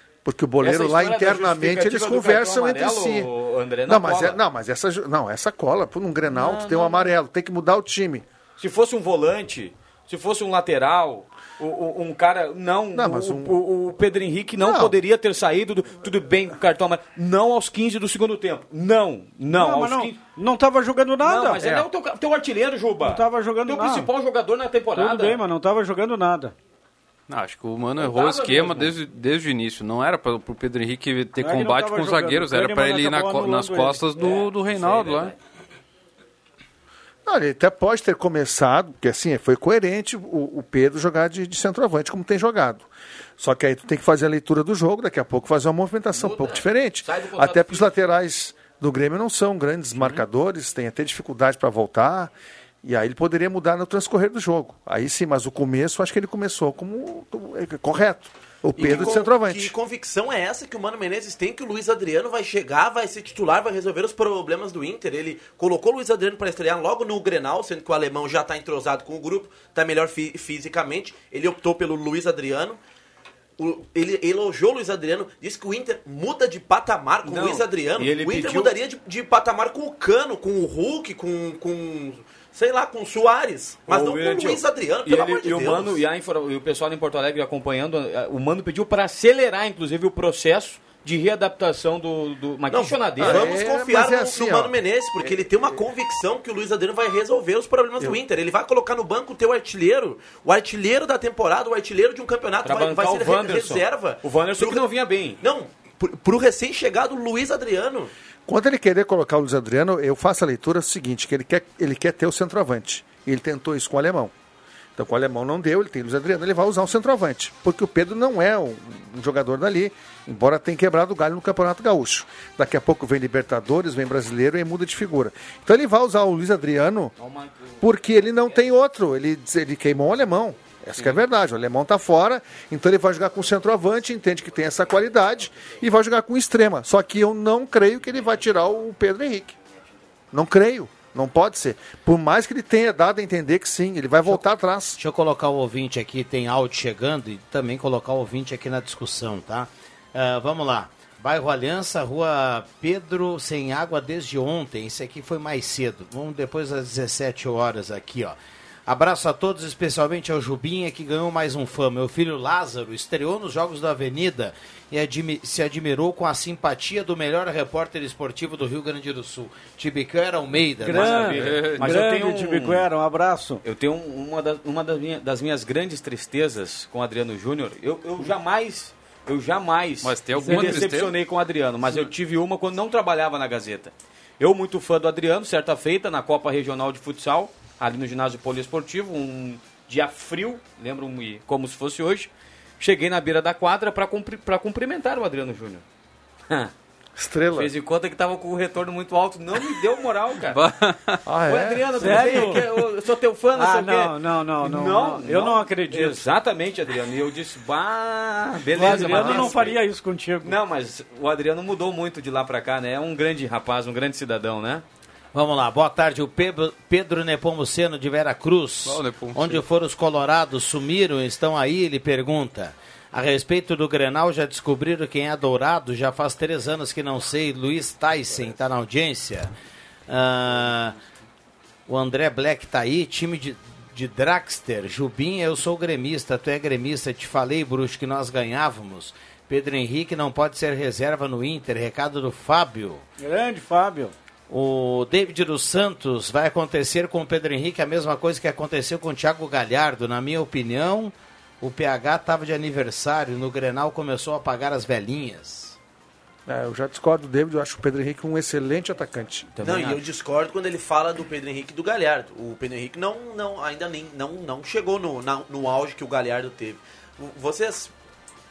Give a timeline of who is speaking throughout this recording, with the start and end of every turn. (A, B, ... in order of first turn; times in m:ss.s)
0:00.2-0:03.3 A
0:00.6-0:04.4 B
0:03.9-0:08.2 A
0:06.3-0:07.1 B
0:08.6-0:20.2 B
0:12.9-0:13.6 A
0:14.6-0:15.0 A
0:19.5-0:21.7 C
0:21.2-0:25.4 B
0:23.0-0:24.1 C
0:25.0-0:26.5 C
0:27.3-0:35.3 D
0:28.0-0:29.0 B
0:31.4-0:34.1 C
0:34.2-0:35.4 B
0:37.2-0:52.3 A
0:46.1-0:47.9 B
0:52.8-0:59.7 A
0:58.8-1:12.8 E
1:13.6-1:26.0 E
1:17.2-1:18.8 B
1:23.9-1:33.5 B
1:32.7-1:44.8 E
1:33.2-1:35.4 A
1:42.6-1:45.4 B
1:45.4-1:48.1 E
1:48.5-1:54.3 A
1:55.0-2:07.1 A
2:07.2-2:07.9 B
2:07.8-2:19.6 A
2:19.7-2:20.0 B
2:20.3-2:25.0 A
2:25.0-2:38.4 F
2:38.9-2:51.3 F
2:50.8-2:53.6 C
2:50.9-2:52.9 B
2:51.4-2:52.0 D
2:53.6-3:15.8 B
3:00.0-3:01.2 D
3:00.4-3:00.9 C
3:17.2-3:17.7 A
3:17.5-3:20.6 B
3:20.5-3:21.2 D
3:21.3-3:22.5 A
3:21.5-3:29.8 B
3:22.0-3:22.7 C
3:23.5-3:26.2 C
3:28.7-3:30.6 C
3:30.4-3:34.8 B
3:35.3-3:49.5 F
3:38.8-3:39.6 D
3:50.1-3:51.0 F
3:51.9-4:03.0 F
4:03.2-4:04.2 C
4:04.5-4:15.8 F
4:16.5-4:19.5 A
4:19.6-4:20.0 B
4:19.6-4:27.9 E